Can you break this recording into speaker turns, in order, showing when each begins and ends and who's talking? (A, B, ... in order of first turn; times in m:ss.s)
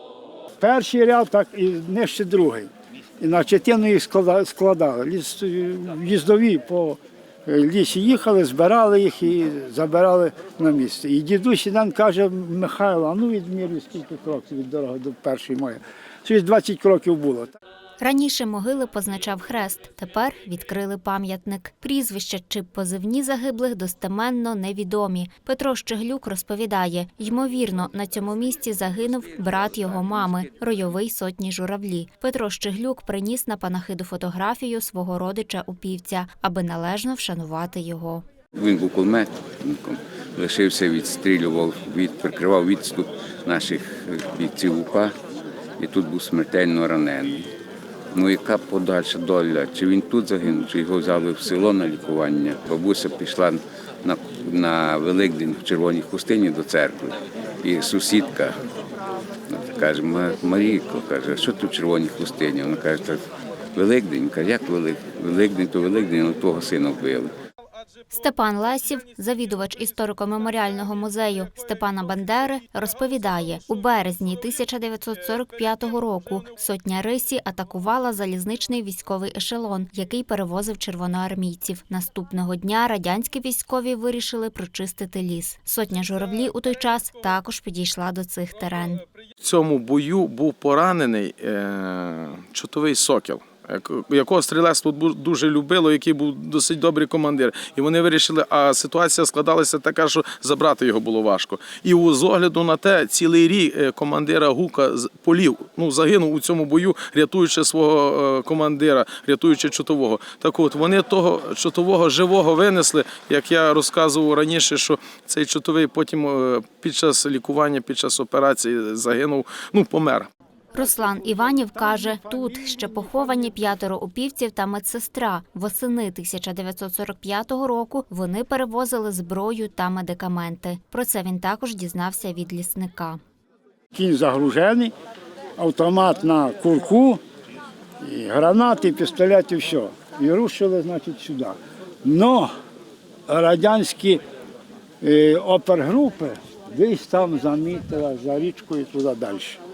0:00.6-0:02.7 A
0:03.2-0:17.5 A
0:18.0-0:38.2 B
0:38.5-0:45.1 C
0:45.8-0:47.5 C
0:48.1-0:58.6 C
0:59.5-1:07.3 C
1:08.1-1:29.0 B
1:29.4-2:00.3 D
2:00.7-2:13.2 B
2:00.8-2:03.4 A
2:13.9-2:14.9 A
2:15.6-2:17.2 A
2:18.0-2:22.5 A
2:23.3-2:24.2 A
2:25.0-2:29.6 A